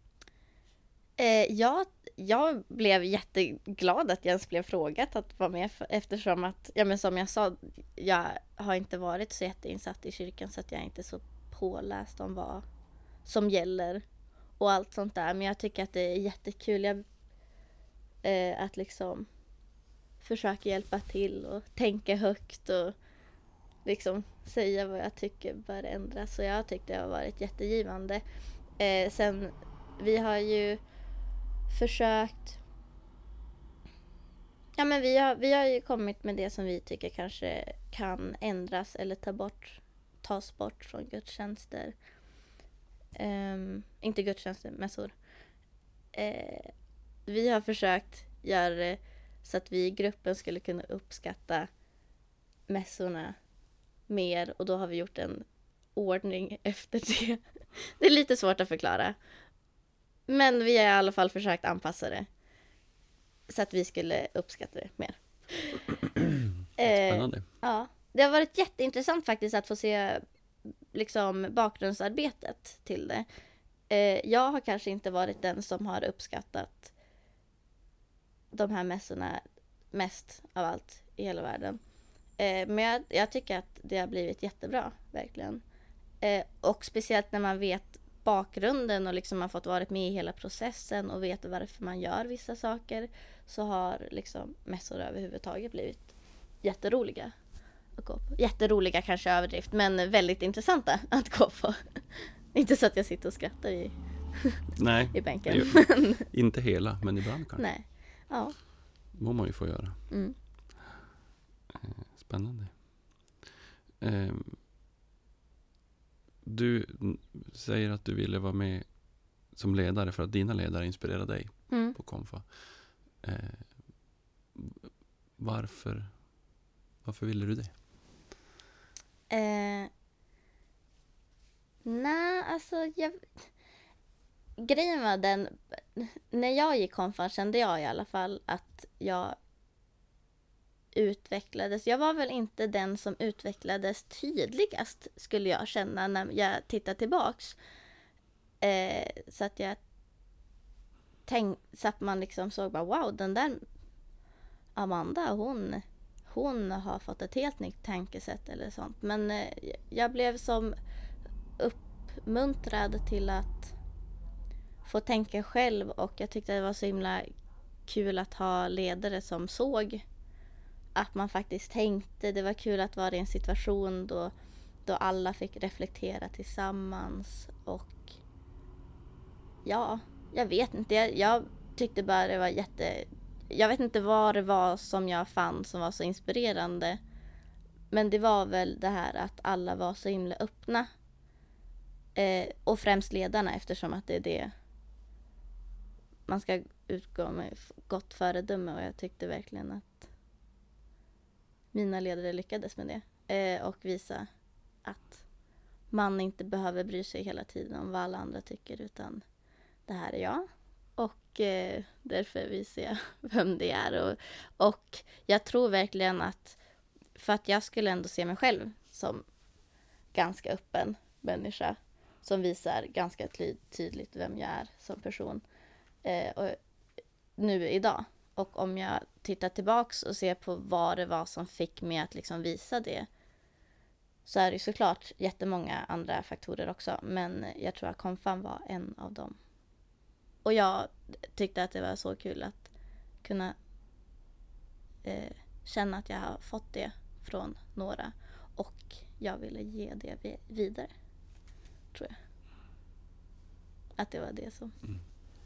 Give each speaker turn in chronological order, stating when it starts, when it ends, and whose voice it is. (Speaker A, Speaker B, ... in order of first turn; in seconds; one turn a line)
Speaker A: 1.2-12.6
Speaker A: 13.2-14.0
Speaker A: 14.6-17.0
Speaker A: 18.2-19.3
Speaker A: 20.2-22.9
Speaker A: 23.8-28.2
Speaker A: 28.8-30.8
Speaker A: 31.7-32.6
Speaker A: 34.8-41.9
Speaker A: 43.1-45.1
Speaker A: 46.1-46.7
Speaker A: 47.2-51.7
Speaker A: 52.7-53.4
Speaker A: 54.1-59.1
Speaker A: 60.3-62.3
Speaker A: 63.5-65.8
Speaker A: 66.8-70.2
Speaker B: 66.8-67.4
Speaker A: 70.9-73.2
Speaker A: 73.9-76.9
Speaker A: 78.5-79.4
Speaker A: 79.9-81.8
Speaker A: 82.4-85.6
Speaker A: 86.2-97.3
Speaker A: 98.0-104.6
Speaker B: 104.8-107.6
Speaker A: 105.1-106.2
Speaker A: 107.6-108.5
Speaker B: 109.1-110.1
Speaker A: 110.1-110.3
Speaker B: 111.7-113.5
Speaker B: 114.0-114.6
Speaker B: 116.4-118.9
Speaker B: 119.5-124.0
Speaker A: 121.7-122.0
Speaker B: 124.5-126.3
Speaker B: 127.0-127.7
Speaker A: 129.3-129.9
Speaker A: 131.8-133.2
Speaker A: 134.6-139.4
Speaker A: 140.9-147.6
Speaker A: 148.6-149.8
Speaker A: 151.3-153.6
Speaker A: 154.8-160.8
Speaker A: 161.6-163.7
Speaker A: 164.8-167.3
Speaker A: 167.8-170.0
Speaker A: 170.9-174.3
Speaker A: 174.8-178.1
Speaker A: 179.6-187.0
Speaker A: 187.9-190.9
Speaker A: 192.2-194.5
Speaker A: 196.3-200.1
Speaker A: 201.7-204.3
Speaker A: 204.8-205.2
Speaker A: 205.9-209.2
Speaker A: 209.9-216.6
Speaker A: 217.2-219.2
Speaker A: 220.1-225.4
Speaker A: 226.0-226.6
Speaker A: 227.4-233.1
Speaker A: 234.2-239.4
Speaker A: 240.4-242.7
Speaker A: 243.2-243.6
Speaker A: 245.0-250.9
Speaker A: 254.0-254.7